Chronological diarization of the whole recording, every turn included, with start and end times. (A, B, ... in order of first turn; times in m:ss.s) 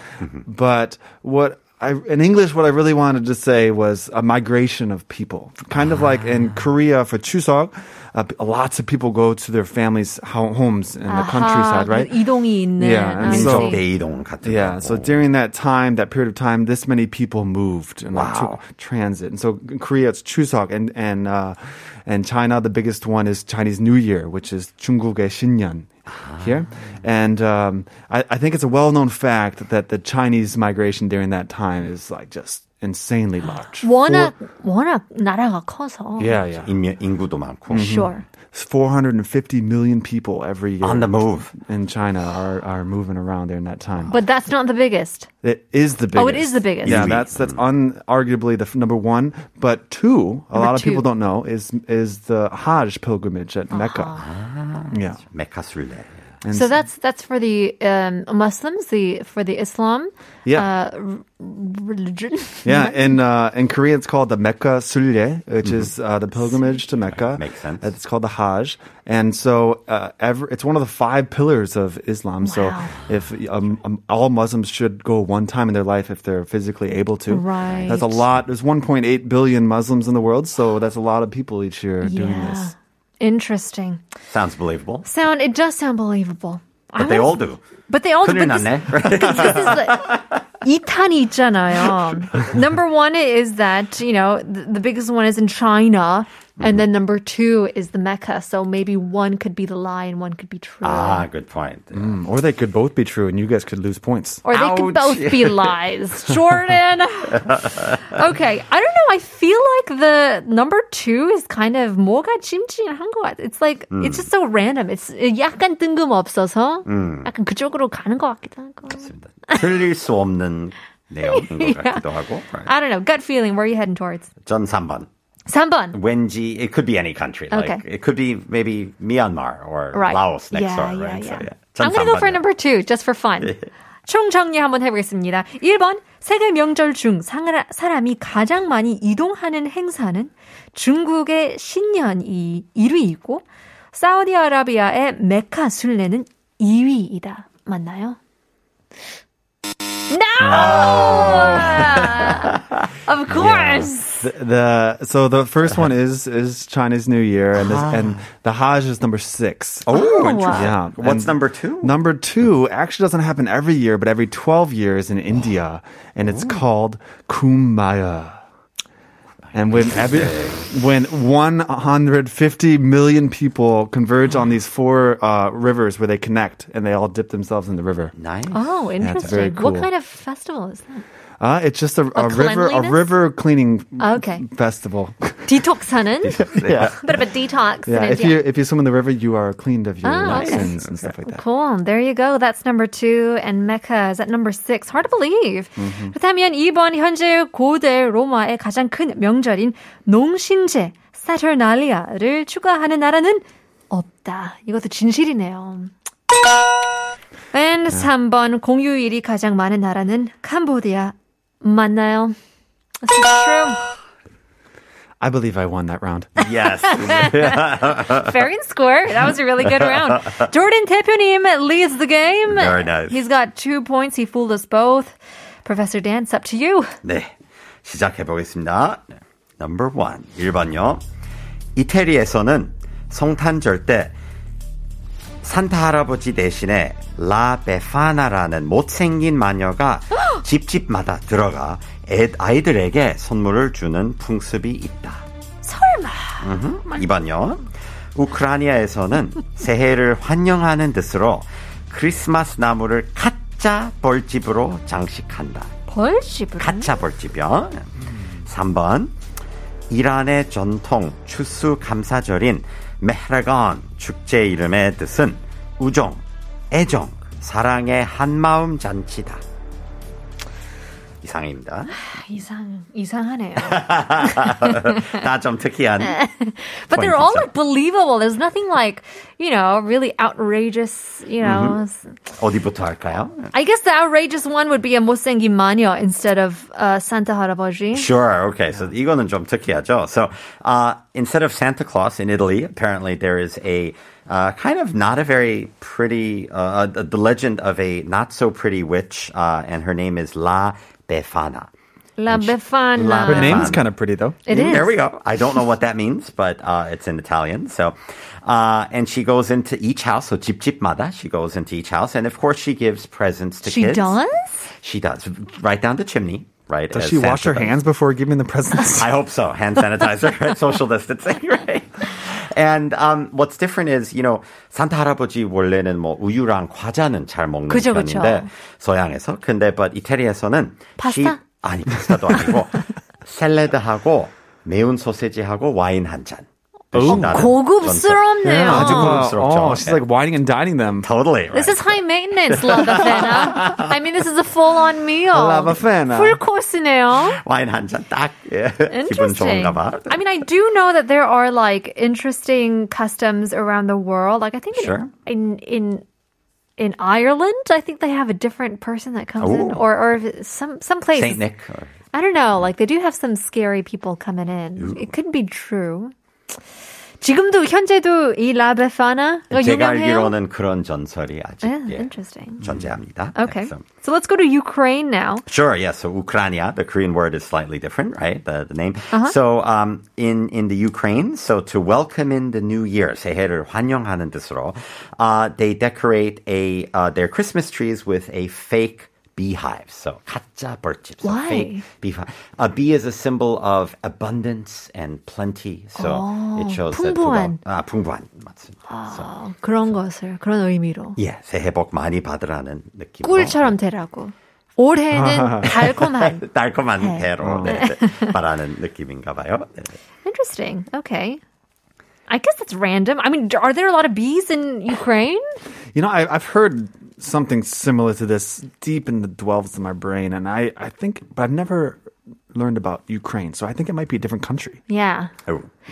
0:00.4-0:12.1 A
0:11.0-0:13.8 B
0:12.8-0:13.8 A
0:13.2-0:15.2 C
0:14.4-0:34.3 A
0:18.1-0:18.6 C
0:26.1-0:26.6 C
0:33.8-0:36.4 B
0:36.2-0:36.7 A
0:36.6-0:38.1 C
0:37.7-0:44.2 A
0:37.8-0:38.2 B
0:40.8-0:41.5 C
0:44.1-0:45.3 B
0:45.4-0:54.2 A
0:46.1-0:47.1 B
0:46.8-0:47.6 C
0:50.5-0:51.1 B
0:53.7-0:54.2 B
0:54.2-0:56.2 C
0:54.9-0:55.2 A
0:56.4-0:56.8 A
0:56.5-1:03.2 B
1:00.4-1:00.7 A
1:02.6-1:22.7 A
1:05.6-1:05.9 C
1:07.1-1:07.9 C
1:12.4-1:12.9 B
1:17.3-1:18.2 B
1:17.6-1:18.2 C
1:22.0-1:24.0 B
1:24.3-1:25.1 C
1:25.0-1:41.3 B
1:27.0-1:27.6 C
1:28.2-1:30.3 C
1:40.8-1:42.2 C
1:41.9-1:44.4 A
1:44.4-1:47.5 B
1:44.5-1:45.8 C
1:47.4-1:47.8 C
1:48.0-1:59.6 B
1:53.9-1:54.3 C
1:56.8-1:57.3 C
1:58.9-2:02.7 C
2:01.2-2:02.1 B
2:02.6-2:04.3 B
2:04.4-2:05.1 C
2:05.5-2:06.0 B
2:05.9-2:12.4 C
2:07.5-2:07.8 B
2:09.9-2:28.2 B
2:30.1-2:34.3 B
2:30.4-2:32.1 A
2:30.6-2:32.4 C
2:33.3-2:33.8 C
2:33.4-2:48.4 A
2:37.6-2:38.2 C
2:39.8-2:41.9 C
2:39.9-2:40.7 B
2:46.2-2:46.6 C
2:49.5-2:50.6 C
2:49.5-2:58.1 A
2:58.2-2:59.4 C
2:58.5-3:01.0 B
2:59.0-2:59.9 A
3:01.4-3:05.6 A
3:02.1-3:03.1 B
3:04.0-3:04.4 B
3:05.4-3:08.4 B
3:06.2-3:07.0 C
3:06.4-3:07.1 A
3:07.8-3:11.4 A
3:10.0-3:10.7 B
3:10.2-3:11.1 C
3:11.2-3:25.9 B
3:15.8-3:16.1 A
3:27.5-3:32.3 B
3:33.0-3:33.8 B
3:35.2-3:36.4 A
3:36.4-3:38.3 C
3:36.6-3:47.0 B
3:37.2-3:37.6 A
3:39.6-3:40.4 C
3:42.5-3:43.3 C
3:47.0-3:47.3 C
3:47.8-3:49.0 C
3:49.6-3:51.0 C
3:51.8-3:54.1 C
3:55.4-4:05.2 C
4:05.6-4:06.5 B
4:06.4-4:15.7 C
4:15.9-4:16.9 B
4:16.6-4:19.1 C
4:19.9-4:29.4 C
4:31.2-4:31.9 C
4:31.9-4:35.2 B
4:33.6-4:36.2 C
4:36.0-4:42.2 B
4:36.9-4:37.5 C
4:41.4-4:41.8 C
4:42.4-4:43.5 C
4:43.5-4:48.1 B
4:47.9-5:01.7 C
5:02.2-5:03.7 B
5:02.3-5:03.9 C
5:03.2-5:04.8 A
5:04.5-5:04.9 B
5:04.5-5:14.2 C
5:13.6-5:14.6 B
5:14.8-5:17.8 C
5:16.9-5:19.1 A
5:18.9-5:40.0 C
5:27.7-5:28.5 B
5:31.0-5:31.4 B
5:36.9-5:37.4 A
5:37.0-5:39.2 B
5:38.4-5:41.1 A
5:41.0-5:44.0 C
5:41.5-5:47.4 B
5:45.3-5:46.4 A
5:47.2-5:50.2 C
5:48.9-5:56.0 B
5:54.7-5:55.1 C
5:56.8-6:01.4 B
5:59.4-5:59.9 C
6:01.1-6:01.9 C
6:02.1-6:06.1 B
6:04.8-6:05.1 C
6:07.2-6:10.4 B
6:09.5-6:12.1 C
6:11.6-6:12.6 B
6:12.6-6:13.8 C
6:13.3-6:15.4 B
6:15.5-6:39.3 C
6:31.2-6:31.8 B
6:36.0-6:37.6 B
6:38.9-6:41.2 B
6:41.2-6:43.7 C
6:43.2-6:46.4 B
6:45.1-6:45.8 A
6:45.7-6:50.0 C
6:47.0-6:48.3 B
6:47.4-6:47.8 A
6:50.2-6:51.4 B
6:52.3-6:55.6 B
6:55.9-7:02.0 A
7:02.5-7:04.8 A
7:04.9-7:05.3 B